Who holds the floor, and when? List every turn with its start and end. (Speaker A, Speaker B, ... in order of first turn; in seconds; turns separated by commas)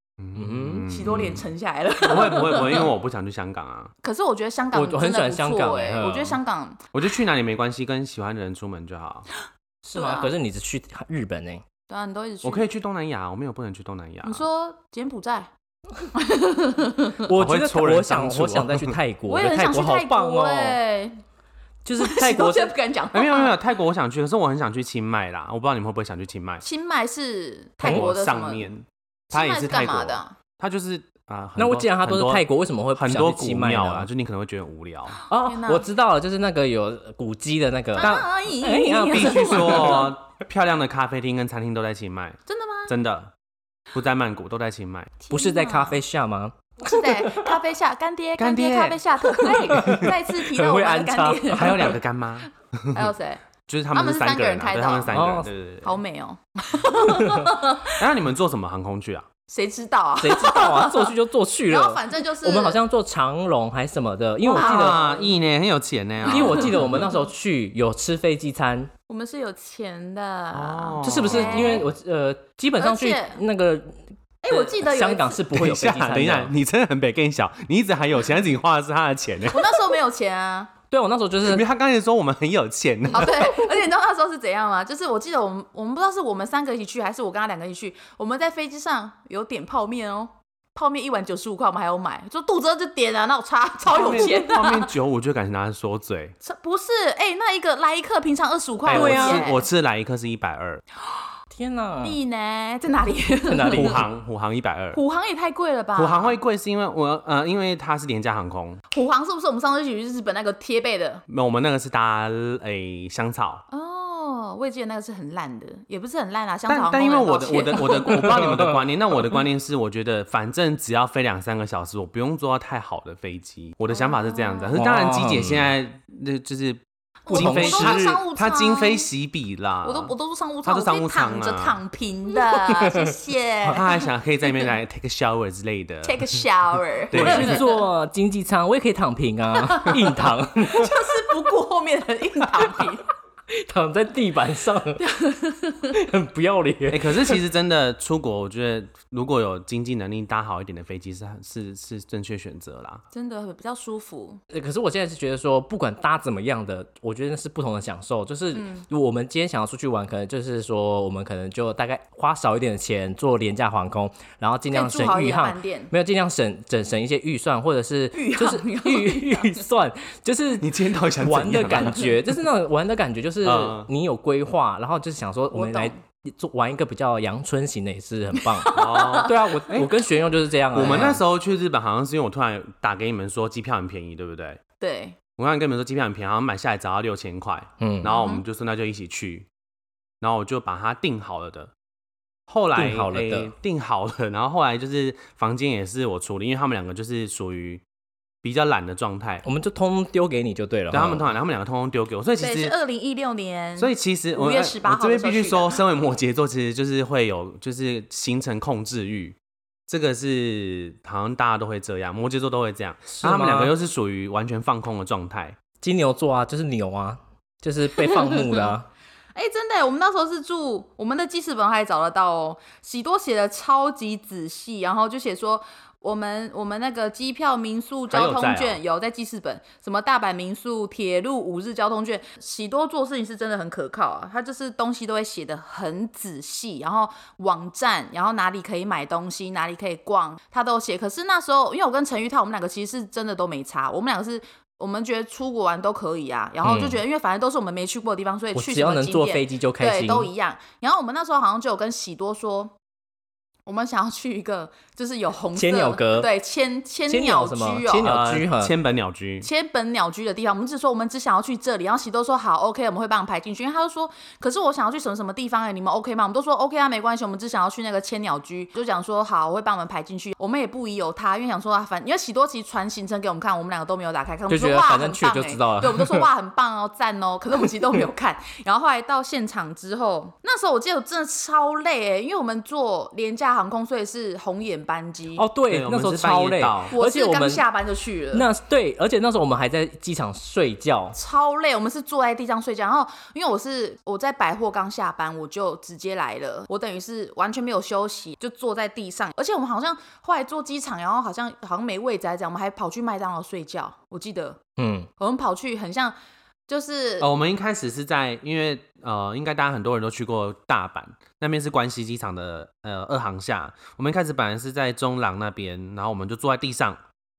Speaker A: 0.2-3.9, Speaker B: 0.4-0.9, Speaker C: 0.8-2.9, Speaker C: 4.0-6.8, Speaker B: 4.7-6.4, Speaker A: 6.9-9.3, Speaker B: 9.8-11.6, Speaker C: 9.9-10.3, Speaker C: 11.9-12.7, Speaker A: 12.4-14.5, Speaker C: 14.2-15.5, Speaker C: 16.1-17.2, Speaker B: 17.2-20.8, Speaker A: 17.4-18.9, Speaker C: 19.3-21.2, Speaker B: 21.9-22.8, Speaker C: 22.0-23.5, Speaker A: 23.1-26.6, Speaker C: 26.6-28.7, Speaker A: 27.8-32.5, Speaker B: 27.8-28.1, Speaker C: 29.3-30.3, Speaker B: 31.6-34.1, Speaker A: 33.0-35.2, Speaker C: 35.3-35.9, Speaker B: 35.3-40.1, Speaker C: 38.0-40.1, Speaker A: 39.1-43.3, Speaker C: 42.5-42.9, Speaker A: 43.9-45.1, Speaker C: 45.2-46.0, Speaker B: 45.3-47.6, Speaker C: 46.8-52.0, Speaker A: 48.4-49.0, Speaker B: 49.3-52.0, Speaker A: 49.7-50.1, Speaker A: 51.5-53.1, Speaker C: 52.9-55.1, Speaker A: 53.7-56.0, Speaker B: 55.1-55.5, Speaker C: 55.8-58.0, Speaker B: 57.0-57.5, Speaker A: 57.8-59.3, Speaker C: 59.5-61.1, Speaker B: 60.2-65.3, Speaker C: 61.7-62.8, Speaker C: 64.4-65.2, Speaker A: 64.5-67.0, Speaker C: 66.2-67.0, Speaker B: 66.3-68.9, Speaker C: 69.1-71.9, Speaker A: 70.5-71.8, Speaker B: 71.0-76.5, Speaker C: 72.8-73.4, Speaker C: 74.4-75.5, Speaker A: 75.5-79.7, Speaker C: 79.5-80.7, Speaker B: 80.9-81.7, Speaker A: 81.4-83.5, Speaker C: 83.1-94.9, Speaker A: 93.9-96.4, Speaker C: 96.4-99.7, Speaker A: 98.8-100.8, Speaker B: 98.9-99.5, Speaker B: 101.5-102.2, Speaker C: 102.0-104.0, Speaker B: 103.5-104.0, Speaker A: 103.7-105.0, Speaker C: 104.9-106.4, Speaker A: 106.0-108.8, Speaker C: 108.9-111.2, Speaker A: 111.3-113.7, Speaker C: 113.7-118.5, Speaker A: 116.7-130.1, Speaker B: 118.1-118.8, Speaker C: 123.9-124.8, Speaker B: 124.8-125.7, Speaker C: 127.3-129.1, Speaker B: 127.3-128.1, Speaker C: 129.8-133.9, Speaker A: 130.7-131.8, Speaker B: 132.6-133.1, Speaker A: 133.7-136.4, Speaker C: 136.0-137.8, Speaker A: 137.1-137.6, Speaker B: 137.1-140.9, Speaker C: 139.6-140.1, Speaker C: 140.6-143.1, Speaker B: 142.6-142.8, Speaker B: 143.5-145.0, Speaker C: 145.0-146.0, Speaker B: 145.9-147.4, Speaker A: 146.9-153.0, Speaker C: 153.1-154.4, Speaker B: 154.5-170.7, Speaker C: 158.5-158.8, Speaker C: 164.7-165.9, Speaker C: 168.1-169.6, Speaker A: 170.6-172.1, Speaker B: 171.2-181.2, Speaker A: 173.4-173.9, Speaker C: 175.5-175.9, Speaker C: 178.5-179.7, Speaker A: 178.7-179.9, Speaker A: 180.7-184.6, Speaker C: 184.8-185.2, Speaker A: 185.4-189.5, Speaker B: 187.8-188.2, Speaker C: 188.1-188.4, Speaker A: 190.2-191.7, Speaker A: 192.5-197.8, Speaker B: 192.8-193.5, Speaker A: 198.4-199.4, Speaker B: 199.4-201.3, Speaker A: 200.9-202.7, Speaker C: 202.4-205.8, Speaker A: 203.8-209.4, Speaker A: 209.9-215.6, Speaker B: 213.1-213.7, Speaker B: 215.8-218.9, Speaker C: 218.0-218.8, Speaker C: 219.3-252.7, Speaker A: 228.1-228.8, Speaker B: 246.6-247.0, Speaker B: 248.5-250.3, Speaker C: 253.7-258.1, Speaker B: 255.6-256.3, Speaker B: 257.1-258.7, Speaker A: 258.0-259.5, Speaker C: 259.4-285.4, Speaker B: 274.5-276.3, Speaker B: 285.4-287.6, Speaker A: 285.7-286.9, Speaker C: 286.9-288.5, Speaker B: 288.3-291.2, Speaker C: 291.1-304.6, Speaker B: 304.8-305.1, Speaker C: 305.2-306.1, Speaker C: 306.7-307.3, Speaker A: 307.2-317.0